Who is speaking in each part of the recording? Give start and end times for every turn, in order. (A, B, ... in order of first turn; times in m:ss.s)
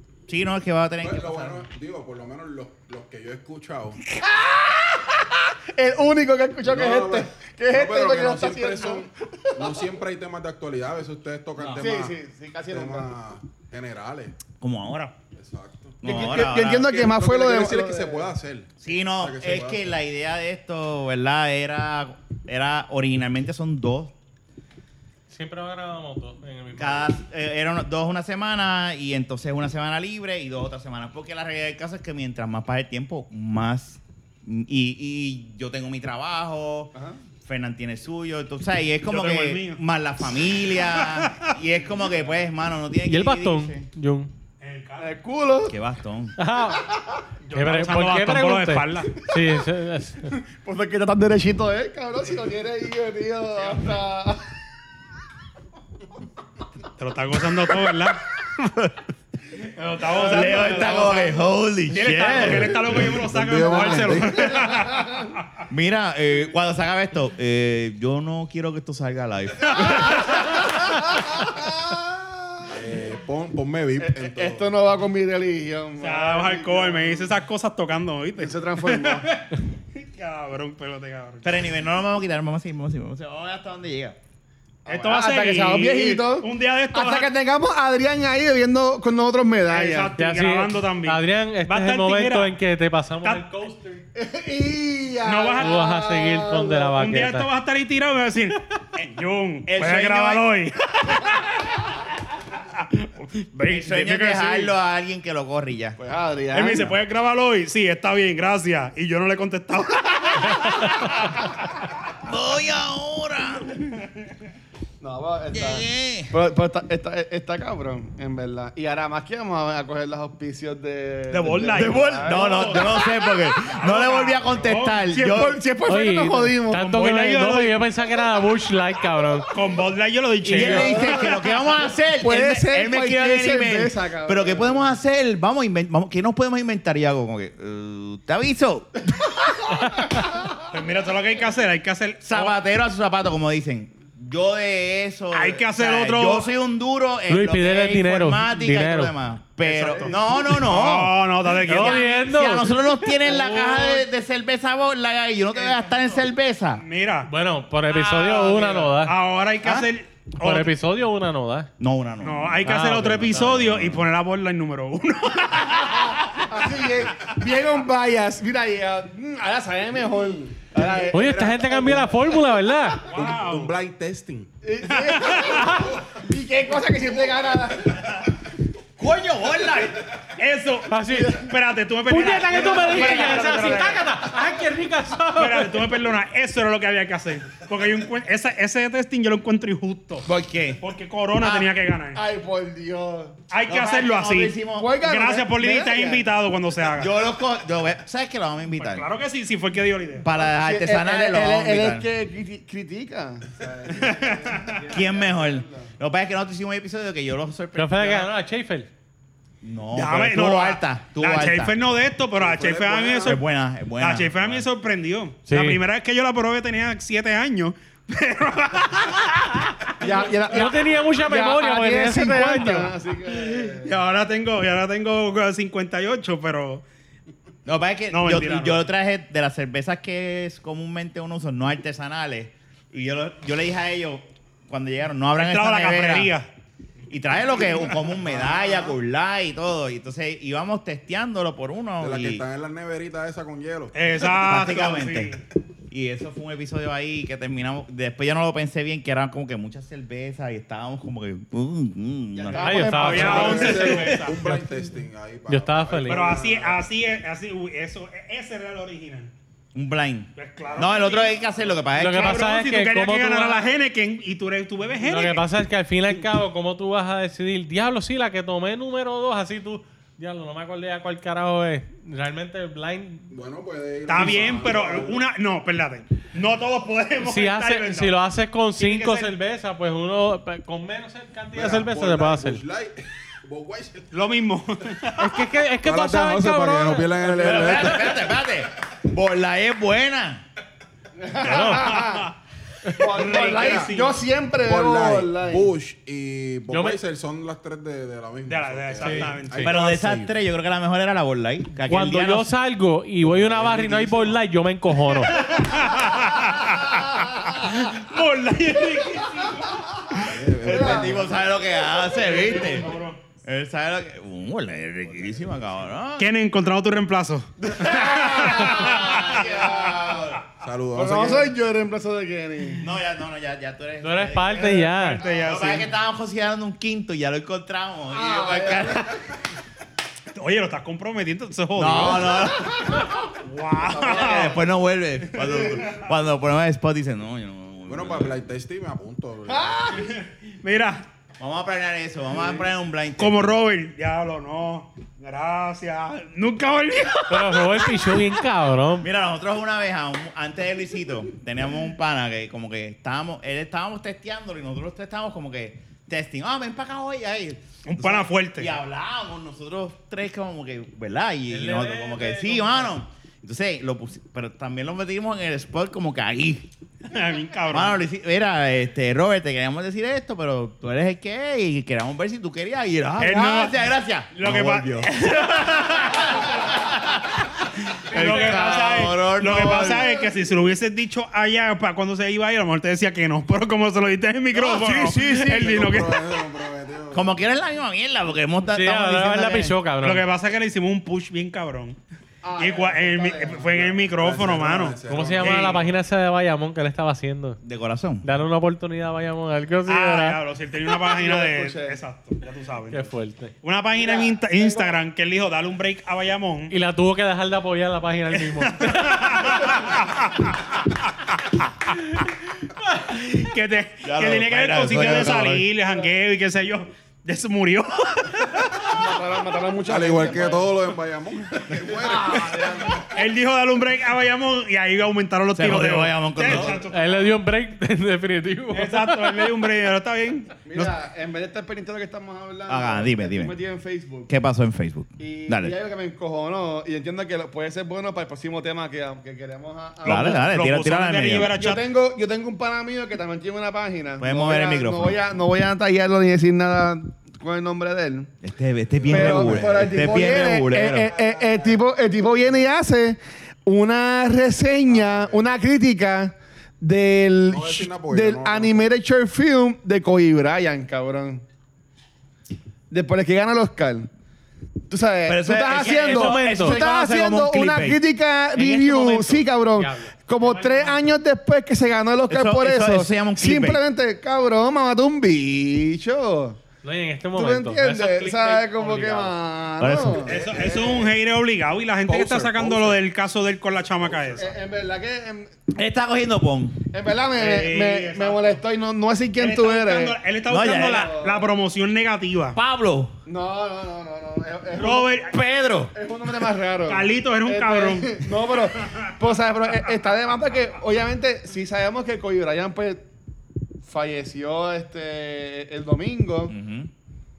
0:00.3-0:01.7 A
0:01.0-0:04.0 B
0:04.1-0:09.8 C
0:06.6-0:12.2 B
0:11.8-0:13.1 C
0:12.7-0:14.4 B
0:14.6-0:15.1 A
0:15.4-0:19.9 B
0:16.0-0:16.9 A
0:16.0-0:18.3 C
0:18.8-0:24.1 A
0:25.3-0:27.1 D
0:26.8-0:43.9 A
0:36.9-0:37.2 C
0:39.1-0:39.8 E
0:40.8-0:41.5 E
0:43.1-0:44.3 D
0:44.6-0:45.2 E
0:45.0-0:45.8 C
0:45.7-0:46.4 A
0:46.4-0:46.9 D
0:46.7-0:47.2 C
0:47.4-0:49.2 E
0:47.5-0:50.3 D
0:50.3-0:54.4 C
0:57.0-0:58.2 E
0:58.6-0:58.9 A
0:59.6-1:05.3 E
1:00.1-1:02.9 A
1:00.3-1:01.0 C
1:02.6-1:04.8 B
1:04.6-1:05.2 C
1:05.7-1:10.6 A
1:10.0-1:12.9 C
1:12.7-1:14.8 B
1:14.0-1:17.3 C
1:16.0-1:21.6 E
1:18.4-1:19.3 C
1:21.4-1:24.2 A
1:24.8-1:30.1 C
1:24.9-1:27.3 E
1:29.7-1:32.5 E
1:30.2-1:34.0 D
1:34.2-1:36.9 C
1:35.2-1:35.9 E
1:35.6-1:37.5 D
1:36.9-1:41.9 E
1:39.7-1:40.5 A
1:42.6-1:44.7 E
1:43.6-1:46.0 A
1:46.0-1:46.9 C
1:46.5-1:51.2 E
1:52.1-1:53.8 A
1:55.0-2:03.0 C
1:55.5-1:56.3 A
2:01.3-2:05.1 E
2:01.7-2:05.6 A
2:05.1-2:06.8 C
2:05.9-2:09.5 D
2:06.7-2:07.8 E
2:09.5-2:11.5 E
2:10.4-2:19.1 A
2:10.6-2:11.3 C
2:12.2-2:14.8 C
2:20.2-2:20.5 C
2:20.7-2:22.6 E
2:22.2-2:36.8 A
2:25.3-2:26.5 E
2:27.3-2:29.1 D
2:29.6-2:32.2 E
2:31.6-2:32.8 D
2:33.2-2:34.0 E
2:36.8-2:37.3 E
2:37.3-2:39.2 D
2:37.9-2:40.7 E
2:39.6-2:39.9 A
2:40.4-2:41.7 D
2:41.8-2:44.1 A
2:42.2-2:46.2 E
2:42.7-2:43.4 D
2:46.4-2:52.4 C
2:50.7-2:51.8 B
2:51.1-2:53.0 D
2:53.1-2:54.5 B
2:53.1-2:53.7 E
2:54.6-2:58.2 C
2:54.9-2:55.7 E
2:59.0-3:00.0 A
3:00.4-3:04.2 E
3:00.9-3:01.4 D
3:01.1-3:01.5 C
3:02.1-3:05.9 D
3:02.9-3:03.5 A
3:05.4-3:10.3 E
3:10.2-3:10.8 A
3:10.8-3:12.2 E
3:11.4-3:11.7 A
3:12.1-3:13.4 C
3:13.5-3:17.1 E
3:13.7-3:15.0 A
3:14.8-3:16.3 C
3:16.9-3:19.1 A
3:18.8-3:20.3 E
3:20.2-3:22.1 A
3:20.4-3:25.9 C
3:23.6-3:24.2 B
3:23.9-3:24.8 E
3:24.9-3:28.3 A
3:27.8-3:28.9 D
3:29.6-3:31.8 A
3:29.9-3:33.4 E
3:32.4-3:33.4 B
3:33.2-3:34.6 A
3:34.0-3:40.1 E
3:35.5-3:35.8 D
3:40.0-3:43.9 C
3:40.5-3:43.0 D
3:43.3-3:46.8 E
3:47.7-3:56.3 A
3:48.1-3:48.8 E
3:55.4-3:56.5 E
3:57.1-4:02.4 A
3:58.1-3:59.0 B
4:02.0-4:04.0 B
4:03.9-4:05.4 E
4:04.3-4:05.4 A
4:05.9-4:13.5 A
4:12.4-4:14.0 C
4:12.5-4:14.8 D
4:12.9-4:14.4 E
4:13.1-4:16.9 B
4:15.5-4:16.2 D
4:16.1-4:19.3 E
4:19.7-4:22.5 A
4:20.4-4:21.4 E
4:22.0-4:23.7 D
4:22.0-4:25.4 E
4:25.0-4:33.3 D
4:33.3-4:35.3 B
4:34.1-4:38.2 E
4:37.2-4:42.6 D
4:38.8-4:39.3 E
4:41.5-4:44.1 B
4:44.1-4:45.3 E
4:45.2-4:48.0 D
4:45.8-4:48.2 B
4:47.3-4:50.4 A
4:51.2-4:52.3 C
4:51.4-4:52.0 D
4:51.4-4:52.4 E
4:52.9-4:55.7 C
4:53.0-4:54.2 E
4:53.2-4:54.0 B
4:54.6-5:00.3 B
4:56.7-4:57.0 D
4:58.5-4:59.8 E
4:59.0-4:59.7 D
4:59.6-5:02.5 A
5:01.9-5:05.5 D
5:03.3-5:04.4 B
5:05.3-5:10.4 E
5:10.2-5:11.4 B
5:10.5-5:12.9 A
5:10.7-5:11.2 C
5:12.1-5:13.2 E
5:12.2-5:13.0 C
5:13.4-5:16.3 A
5:16.2-5:20.0 E
5:17.6-5:20.1 C
5:18.1-5:20.4 A
5:20.5-5:21.5 B
5:20.9-5:22.9 C
5:22.8-5:29.2 A
5:24.0-5:25.2 D
5:25.0-5:25.9 E
5:28.1-5:29.1 C
5:30.3-5:32.5 E
5:31.8-5:33.3 A
5:32.3-5:33.0 C
5:33.4-5:34.6 E
5:33.8-5:34.6 C
5:34.0-5:38.4 A
5:35.3-5:36.0 E
5:37.9-5:39.9 B
5:39.5-5:40.1 C
5:39.9-5:41.0 E
5:41.4-5:43.6 A
5:43.2-5:48.4 E
5:47.3-5:49.1 D
5:49.0-6:06.7 A
5:57.8-5:58.7 E
6:01.5-6:03.0 D
6:07.0-6:08.0 E
6:07.7-6:17.5 A
6:13.2-6:16.6 E
6:18.0-6:26.2 E
6:18.1-6:20.2 A
6:18.2-6:19.0 D
6:24.5-6:27.4 B
6:27.1-6:29.8 A
6:28.7-6:30.2 D
6:30.0-6:32.0 E
6:32.4-6:33.8 C
6:32.6-6:35.8 E
6:33.7-6:35.9 B
6:35.1-6:37.6 D
6:37.6-6:38.3 A
6:38.2-6:40.4 D
6:39.9-6:43.1 E
6:40.9-6:42.0 C
6:42.9-6:43.5 D
6:43.6-6:46.7 E
6:44.0-6:45.0 C
6:46.7-6:49.7 D
6:48.3-6:52.0 E
6:52.9-6:58.9 E
6:54.0-6:55.7 A
6:58.9-7:00.8 C
6:59.9-7:03.0 B
7:01.8-7:03.0 C
7:02.3-7:07.4 E
7:05.5-7:06.8 A
7:06.6-7:09.5 D
7:08.7-7:11.0 E
7:10.7-7:14.3 C
7:12.7-7:13.6 A
7:14.3-7:15.8 A
7:15.2-7:20.6 C
7:20.0-7:21.5 A
7:20.1-7:21.9 E
7:21.4-7:28.3 C
7:24.2-7:25.2 A
7:28.4-7:31.1 A
7:29.0-7:31.8 B
7:29.1-7:41.4 C
7:34.9-7:35.5 B
7:37.5-7:38.9 B
7:42.9-7:44.1 C
7:44.9-7:56.6 C
7:45.2-7:48.0 A
7:45.8-7:46.8 D
7:48.6-7:49.4 E
7:48.6-7:51.1 D
7:52.3-7:53.8 A
7:56.8-7:59.4 D
7:57.4-8:00.4 C
7:59.8-8:00.3 A
8:00.2-8:01.2 B
8:00.2-8:04.5 E
8:02.1-8:03.0 B
8:04.0-8:04.5 B
8:04.4-8:05.5 C
8:05.7-8:06.8 A
8:06.9-8:10.2 C
8:07.4-8:08.6 E
8:09.4-8:12.6 E
8:10.5-8:11.1 A
8:10.9-8:11.5 C
8:12.6-8:13.1 A
8:13.3-8:15.1 C
8:14.8-8:15.4 E
8:15.3-8:15.9 A
8:15.9-8:23.0 C
8:16.9-8:19.1 E
8:23.8-8:26.5 C
8:26.5-8:26.9 A